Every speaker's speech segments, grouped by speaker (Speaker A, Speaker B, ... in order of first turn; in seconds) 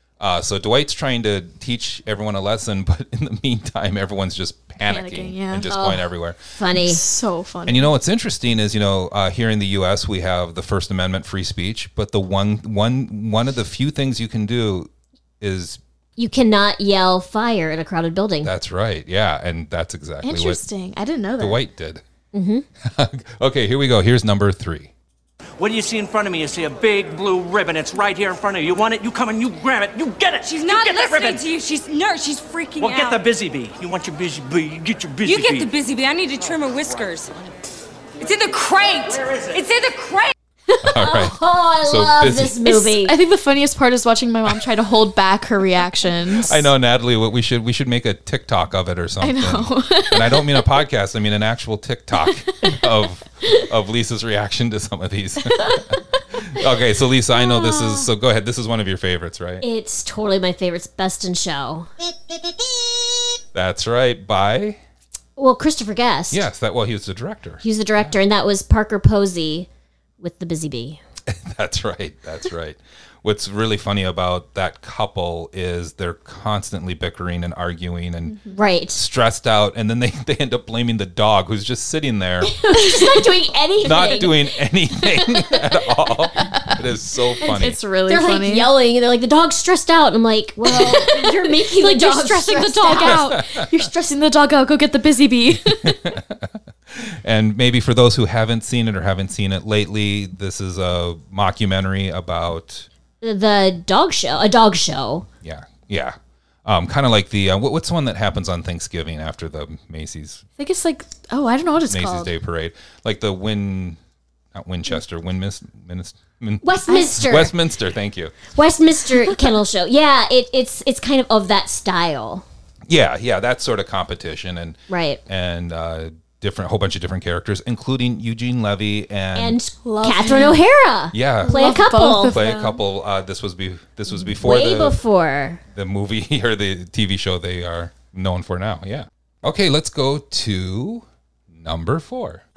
Speaker A: 0.2-6.4, 7.7-14.9, 15.4-15.8, 18.4-20.6, 21.4-22.0, 22.8-24.9, 40.8-42.6, 46.3-59.6, 63.5-64.8, 66.3-68.2, 71.2-78.4, 78.9-82.5, 83.8-87.8, 92.9-93.8, 95.6-102.9, 105.4-110.4, 111.9-114.0, 114.5-118.4, 122.9-129.6, 131.1-135.0, 135.7-142.4
Speaker B: 4.8-5.7, 6.7-7.9, 20.2-21.6, 42.7-46.7, 49.2-50.4, 82.8-83.3, 83.8-84.2, 86.4-86.7, 87.4-88.7, 90.7-96.1, 110.6-112.3, 129.8-130.6, 131.4-132.8
Speaker C: 5.7-7.0, 16.2-18.5, 22.3-22.6, 41.0-43.1, 57.3-58.1, 59.6-61.9, 65.4-66.5, 67.6-69.7, 70.2-71.0, 78.5-79.0, 82.4-84.3, 87.4-93.3, 103.2-105.2, 116.6-117.5, 118.5-122.4, 124.9-125.2, 129.3-132.4, 134.4-135.6
Speaker D: 25.6-31.4, 32.8-35.7, 39.2-39.6
Speaker E: 30.4-33.2, 35.2-37.3, 38.2-40.3